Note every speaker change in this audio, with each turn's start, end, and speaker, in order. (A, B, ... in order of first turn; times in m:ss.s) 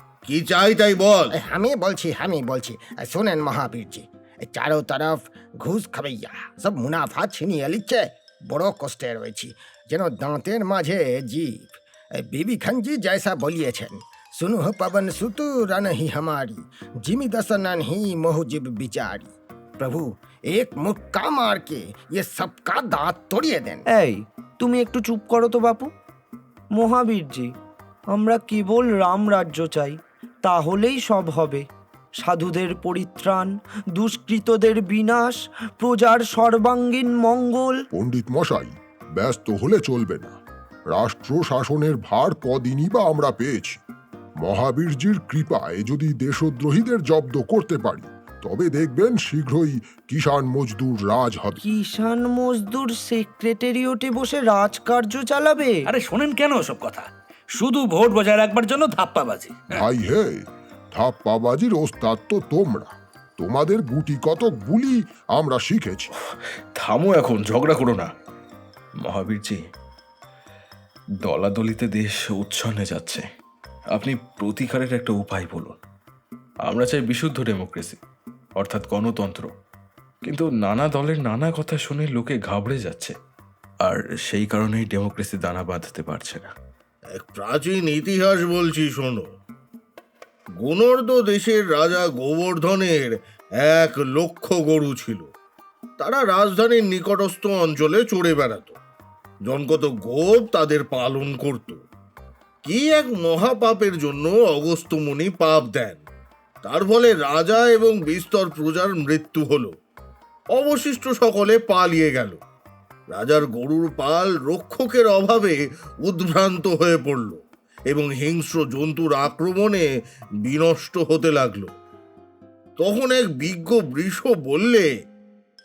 0:00.3-0:01.4 A
0:01.4-0:23.8 B
0:23.9-0:25.9 C
0:26.8-0:27.5 C
0:28.1-0:31.6 C
0:32.2-0:37.8 C
0:38.0-0:40.4 D
0:40.9-0:43.8 D
0:44.4-0:51.6 D
0:51.6-0:55.8 C
0:55.9-0:57.1 E
0:57.6-0:59.6 E
0:59.8-1:00.3 D
1:00.9-1:06.1 D
1:06.8-1:08.1 F
1:09.0-1:09.6 F
1:11.2-1:13.2 F
1:13.9-1:15.7 F
1:16.7-1:18.0 F
1:18.6-1:19.5 F
1:20.2-1:23.2 F
1:23.8-1:26.5 F
1:27.2-1:29.2 A
1:30.6-1:35.3 A
1:36.0-1:38.8 A
1:39.5-1:41.8 A
1:42.7-1:46.0 A
1:46.6-1:49.7 A
1:50.6-1:52.4 A
1:53.1-1:59.9 A
2:00.5-2:01.7 A
2:02.8-2:04.9 A